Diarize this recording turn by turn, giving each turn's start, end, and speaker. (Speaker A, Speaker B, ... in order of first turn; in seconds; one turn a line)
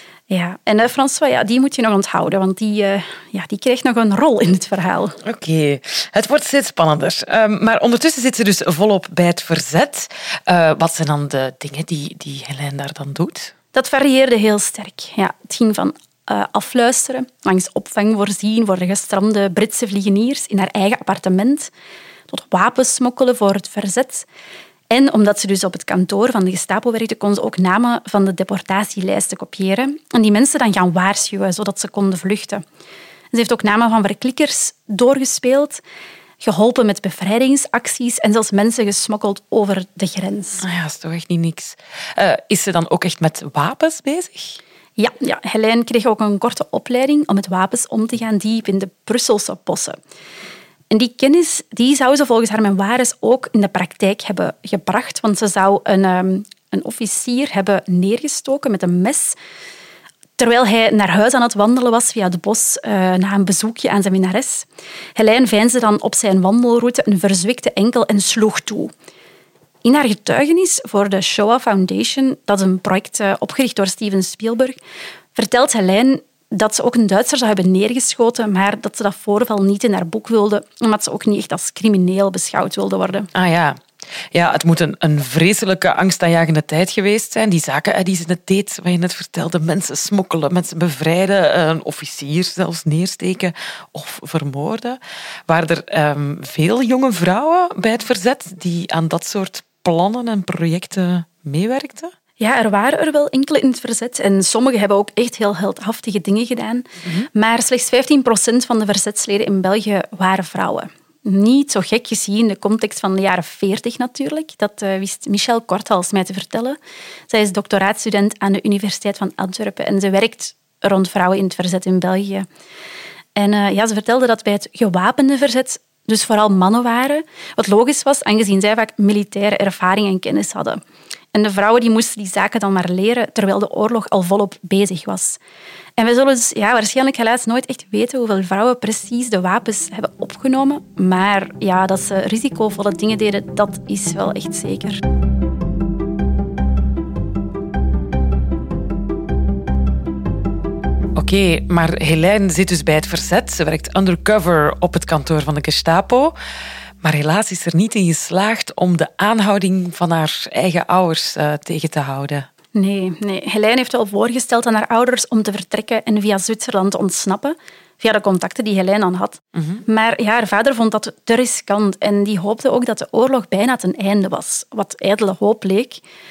Speaker A: 0.3-5.2
Speaker B: 5.2-13.5
Speaker A: 13.7-21.7
Speaker A: 22.3-24.2
Speaker A: 24.9-32.6
Speaker A: 33.3-35.8
Speaker A: 36.4-40.6
Speaker B: 40.6-44.6
Speaker A: 45.0-50.0
Speaker A: 50.9-59.4
Speaker A: 60.4-68.9
Speaker A: 69.8-74.8
Speaker A: 75.3-83.3
Speaker B: 83.3-102.1
Speaker A: 102.4-116.8
Speaker A: 117.3-122.5
Speaker A: 123.3-130.8
Speaker A: 131.3-135.4
Speaker A: 136.0-145.0
Speaker B: 151.2-156.3
Speaker B: 157.0-162.5
Speaker A: 162.7-176.0
Speaker B: 169.6-169.8